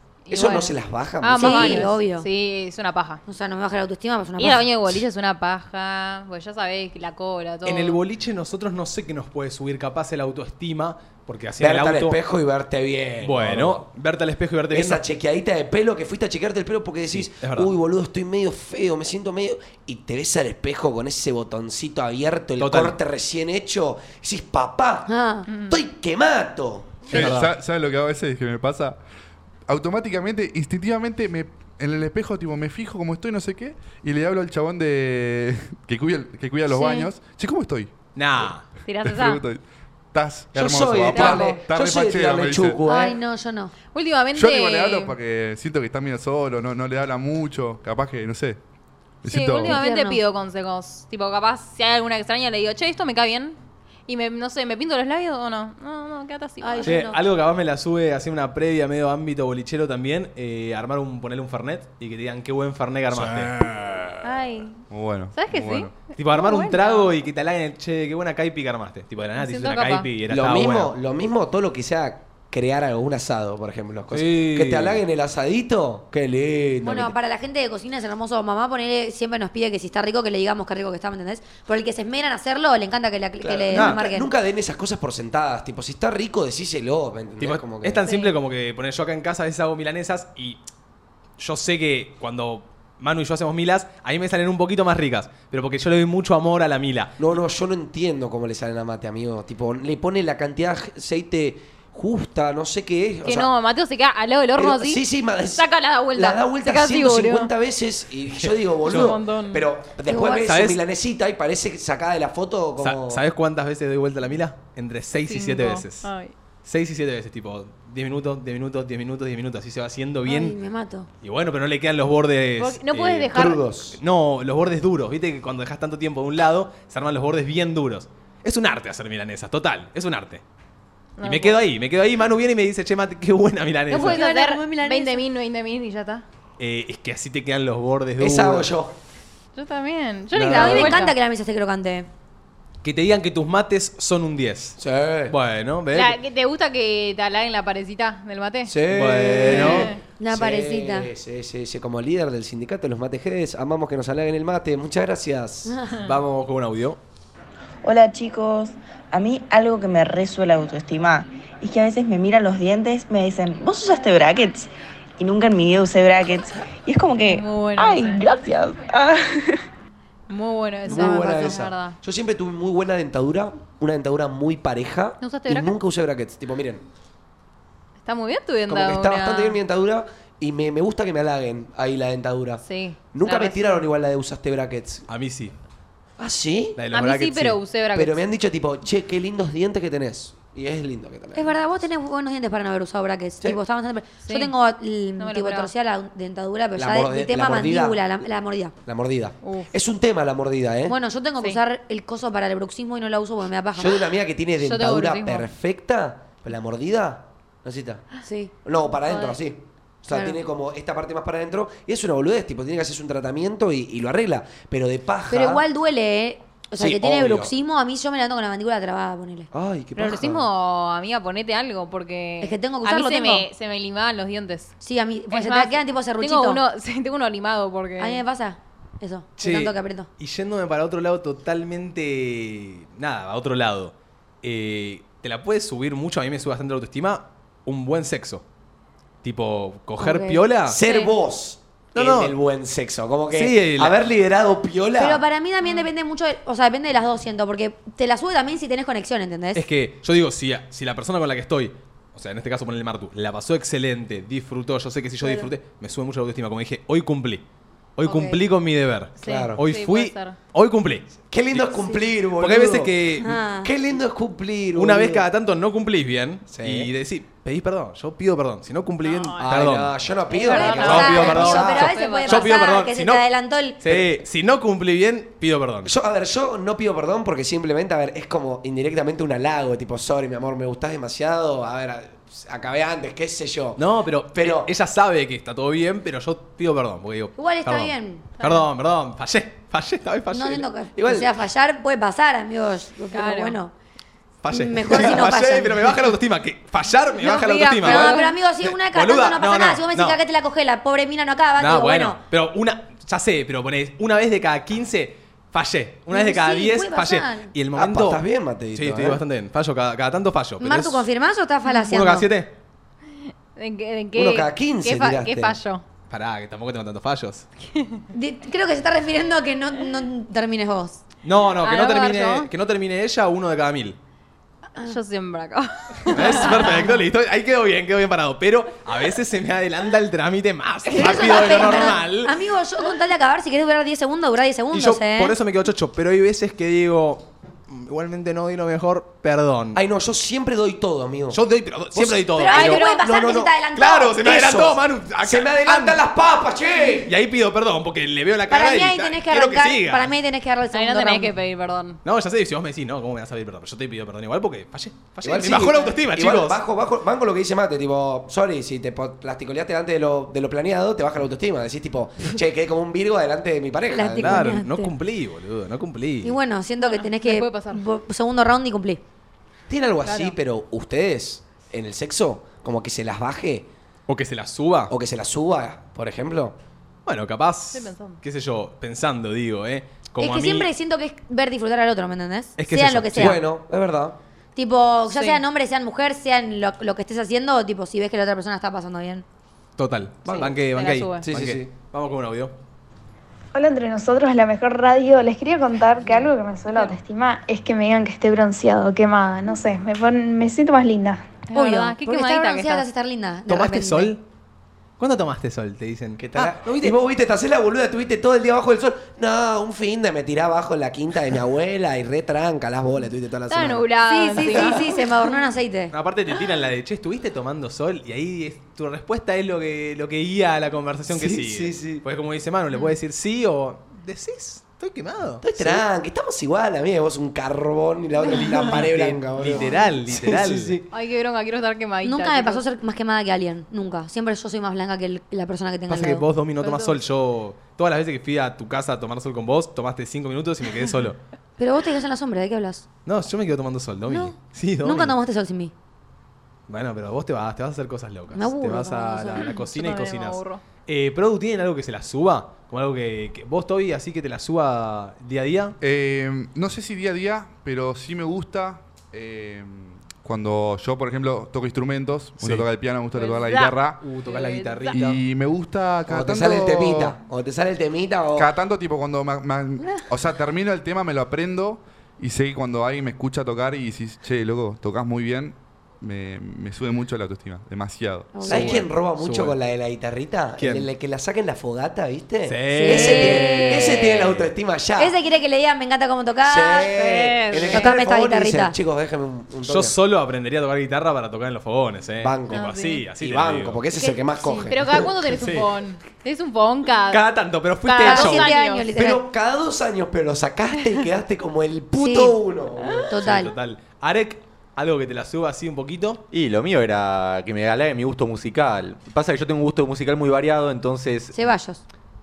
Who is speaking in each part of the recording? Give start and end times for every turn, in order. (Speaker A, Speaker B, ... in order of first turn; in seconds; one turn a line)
Speaker A: 0.2-3.2
Speaker B: 0.3-1.9
Speaker C: 1.4-2.3
Speaker C: 3.2-4.7
Speaker A: 4.4-8.0
Speaker D: 7.6-12.2
Speaker B: 11.6-13.8
Speaker D: 13.2-15.0
Speaker B: 14.7-25.1
Speaker D: 17.1-17.7
Speaker D: 22.6-23.0
Speaker C: 25.1-25.5
Speaker A: 25.5-25.8
Speaker B: 25.7-27.4
Speaker D: 27.1-27.5
Speaker E: 27.1-29.0
Speaker E: 29.7-42.8
Speaker C: 36.7-37.1
Speaker D: 38.1-38.7
Speaker A: 38.9-39.4
Speaker B: 40.5-43.2
Speaker A: 41.1-41.6
Speaker C: 42.8-43.7
Speaker A: 43.9-45.1
Speaker E: 44.3-48.6
Speaker E: 49.2-49.8
Speaker A: 49.2-57.0
Speaker C: 49.6-50.2
Speaker C: 56.6-57.2
Speaker D: 56.8-63.5
Speaker E: 63.3-64.2
Speaker A: 64.2-67.1
Speaker E: 64.9-66.0
Speaker D: 66.1-70.9
Speaker A: 69.4-70.1
Speaker B: 70.3-77.1
Speaker D: 74.1-75.0
Speaker C: 76.8-84.3
Speaker B: 83.4-88.0
Speaker D: 83.7-84.0
Speaker D: 87.4-90.6
Speaker A: 88.0-88.3
Speaker D: 91.4-97.2
Speaker B: 97.2-103.5
Speaker A: 103.2-107.5
Speaker B: 104.5-113.2
Speaker D: 108.3-109.2
Speaker A: 108.8-109.7
Speaker C: 110.0-110.5
Speaker D: 110.5-110.8
Speaker D: 112.8-116.1
Speaker A: 115.2-116.3
Speaker D: 116.6-120.6
Speaker C: 120.2-121.1
Speaker D: 121.2-130.4
Speaker A: 122.6-123.6
Speaker B: 123.3-124.0
Speaker A: 131.2-131.6
Speaker D: 131.2-134.2
Speaker A: 133.9-136.2
Speaker C: 133.9-135.2
Speaker D: 136.6-138.7
Speaker B: 138.2-138.9
Speaker A: 139.5-141.2
Speaker D: 140.3-141.1
Speaker C: 140.5-142.1
Speaker D: 142.8-146.2
Speaker B: 144.8-145.3
Speaker A: 145.9-148.7
Speaker B: 148.7-155.7
Speaker D: 148.9-149.9
Speaker A: 149.5-150.0
Speaker C: 150.2-151.1
Speaker C: 155.7-156.0
Speaker D: 156.0-157.0
Speaker F: 157.8-169.6
Speaker A: 167.2-168.2
Speaker A: 170.3-172.0
Speaker B: 170.8-176.8
Speaker C: 170.9-171.5
Speaker A: 175.2-175.7
Speaker A: 178.0-179.6
Speaker B: 178.7-185.1
Speaker A: 182.6-183.6
Speaker D: 185.1-185.5
Speaker B: 186.2-186.8
Speaker D: 186.8-187.6
Speaker A: 186.9-188.2
Speaker B: 187.9-191.5
Speaker C: 191.3-198.7
Speaker A: 194.2-194.5
Speaker A: 195.2-195.7
Speaker B: 196.8-198.2
Speaker B: 198.8-200.9
Speaker A: 199.4-199.7
Speaker C: 200.9-204.0
Speaker B: 203.8-208.0
Speaker A: 204.6-205.5
Speaker C: 208.2-208.5
Speaker B: 208.6-215.6
Speaker A: 209.1-209.4
Speaker C: 210.1-210.4
Speaker C: 215.3-219.5
Speaker B: 216.8-217.5
Speaker B: 219.5-220.5
Speaker A: 219.9-224.7
Speaker C: 222.4-223.4
Speaker C: 224.8-226.6
Speaker A: 225.3-228.2
Speaker C: 228.0-230.1
Speaker D: 229.4-238.4
Speaker D: 239.2-240.8
Speaker C: 240.0-240.4
Speaker B: 240.7-245.2
Speaker A: 240.8-241.1
Speaker D: 241.9-242.3
Speaker D: 243.3-244.0
Speaker C: 245.0-249.6
Speaker A: 245.6-245.9
Speaker D: 249.5-257.4
Speaker C: 255.2-255.5
Speaker D: 258.0-261.7
Speaker C: 258.1-258.4
Speaker A: 259.2-260.4
Speaker B: 259.2-259.6
Speaker B: 261.3-262.9
Speaker D: 262.4-263.4
Speaker C: 263.2-263.7
Speaker B: 263.6-265.2
Speaker D: 264.8-270.1
Speaker B: 266.5-266.9
Speaker A: 269.0-269.5
Speaker B: 269.4-271.9
Speaker A: 270.3-272.7
Speaker C: 270.3-273.8
Speaker D: 270.6-273.2
Speaker D: 273.8-275.9
Speaker B: 273.9-274.1
Speaker B: 275.8-283.8
Speaker D: 283.8-290.6
Speaker B: 284.3-284.7
Speaker C: 287.4-288.2
Speaker A: 288.4-288.6
Speaker C: 290.3-293.7
Speaker B: 290.9-291.3
Speaker A: 293.1-293.6
Speaker D: 294.4-300.2
Speaker C: 294.5-295.9
Speaker C: 297.1-302.2
Speaker B: 297.8-298.2
Speaker D: 301.6-311.1
Speaker C: 306.1-307.5
Speaker B: 307.7-309.2
Speaker C: 310.6-312.3
Speaker D: 311.7-312.5
Speaker A: 313.6-315.8
Speaker B: 314.1-315.6
Speaker D: 316.1-317.5
Speaker A: 317.7-318.0
Speaker C: 318.1-321.0
Speaker D: 321.2-324.0
Speaker A: 321.6-322.5
Speaker A: 324.8-326.9
Speaker D: 326.1-332.3
Speaker C: 326.3-326.9
Speaker C: 330.9-335.3
Speaker D: 334.7-339.8
Speaker B: 339.7-341.4
Speaker D: 341.3-342.8
Speaker B: 341.9-343.6
Speaker C: 342.4-344.2
Speaker A: 342.5-343.1
Speaker D: 343.8-346.0
Speaker B: 344.2-347.1
Speaker D: 347.1-350.1
Speaker C: 348.5-351.3
Speaker A: 350.7-352.0
Speaker D: 352.0-356.6
Speaker B: 355.2-364.6
Speaker C: 363.9-364.9
Speaker D: 364.2-366.4
Speaker C: 366.2-369.0
Speaker A: 366.8-367.8
Speaker B: 369.7-373.7
Speaker A: 370.0-370.4
Speaker D: 374.1-374.9
Speaker B: 374.9-376.5
Speaker D: 377.1-380.7
Speaker A: 377.7-378.2
Speaker C: 380.2-383.4
Speaker D: 382.6-383.4
Speaker B: 383.1-384.2
Speaker C: 384.6-389.2
Speaker A: 385.1-385.4
Speaker D: 389.8-392.5
Speaker B: 390.2-390.6
Speaker A: 390.7-391.2
Speaker B: 391.2-391.7
Speaker G: 393.5-401.4
Speaker A: 396.1-396.9
Speaker A: 401.5-402.9
Speaker C: 401.5-404.1
Speaker D: 403.5-404.2
Speaker D: 405.0-406.9
Speaker B: 406.2-413.9
Speaker A: 413.5-415.1
Speaker C: 414.1-415.9
Speaker D: 415.9-425.8
Speaker B: 421.1-422.0
Speaker B: 425.4-430.8
Speaker D: 428.2-430.8
Speaker A: 429.6-429.9
Speaker A: 430.9-432.6
Speaker C: 432.0-436.3
Speaker D: 435.9-441.2
Speaker A: 436.6-437.0
Speaker C: 441.6-442.8
Speaker D: 443.1-445.1
Speaker C: 444.1-445.7
Speaker D: 446.7-455.8
Speaker C: 448.3-449.6
Speaker A: 449.4-450.6
Speaker E: 455.8-464.0
Speaker D: 462.4-462.7
Speaker A: 463.1-465.0
Speaker D: 464.0-465.2
Speaker E: 464.9-467.2
Speaker B: 466.1-468.5
Speaker E: 468.4-478.4
Speaker C: 478.3-478.9
Speaker D: 478.4-479.6
Speaker B: 478.4-485.1
Speaker D: 480.6-480.9
Speaker D: 482.4-484.1
Speaker C: 482.7-484.4
Speaker C: 485.0-486.9
Speaker B: 486.4-489.9
Speaker A: 486.9-487.9
Speaker C: 487.6-488.7
Speaker D: 489.7-493.8
Speaker B: 492.2-495.1
Speaker A: 492.5-493.0
Speaker C: 494.0-494.7
Speaker A: 494.7-497.3
Speaker D: 495.4-495.7
Speaker D: 497.1-498.5
Speaker A: 497.8-498.9
Speaker C: 498.0-499.2
Speaker B: 498.9-503.1
Speaker C: 501.9-502.4
Speaker C: 503.1-503.5
Speaker D: 503.1-506.2
Speaker H: 506.3-511.3
Speaker C: 511.3-511.8